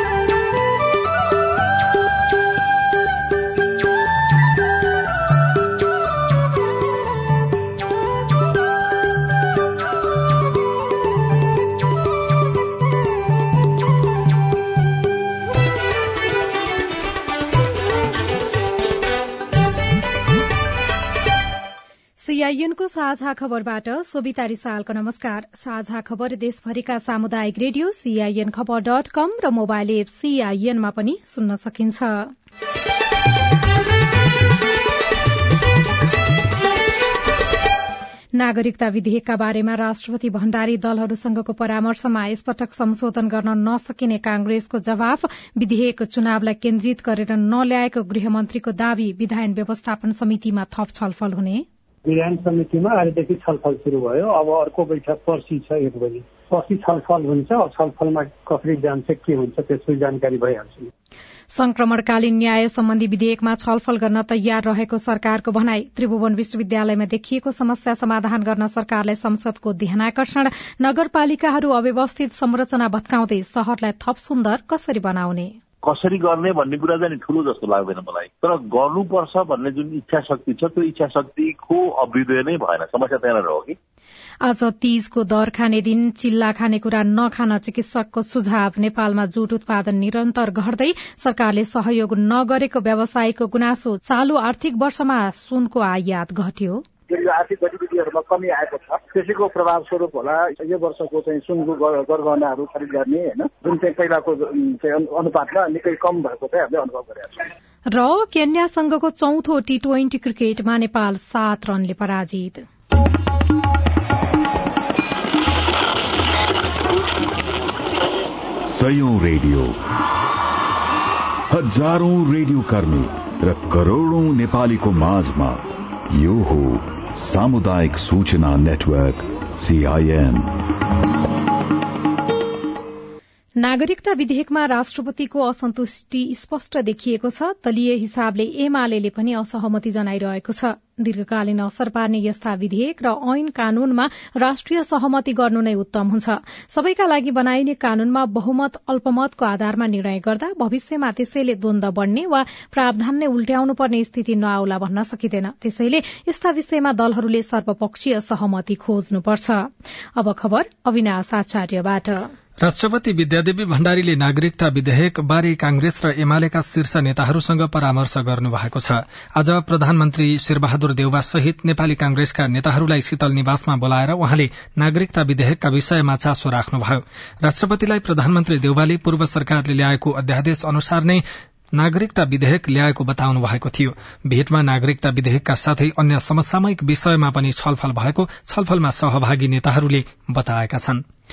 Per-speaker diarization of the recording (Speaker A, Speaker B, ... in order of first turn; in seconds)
Speaker A: 22.2-32.3, 38.3-51.6, 61.5-75.6, 84.4-96.8, 107.9-112.6, 133.6-162.3
Speaker B: 52.0-60.9
Speaker C: 75.8-83.8
Speaker D: 97.1-107.5
Speaker E: 118.7-119.8, 121.5-130.5
Speaker F: 162.6-181.2, 181.7-191.0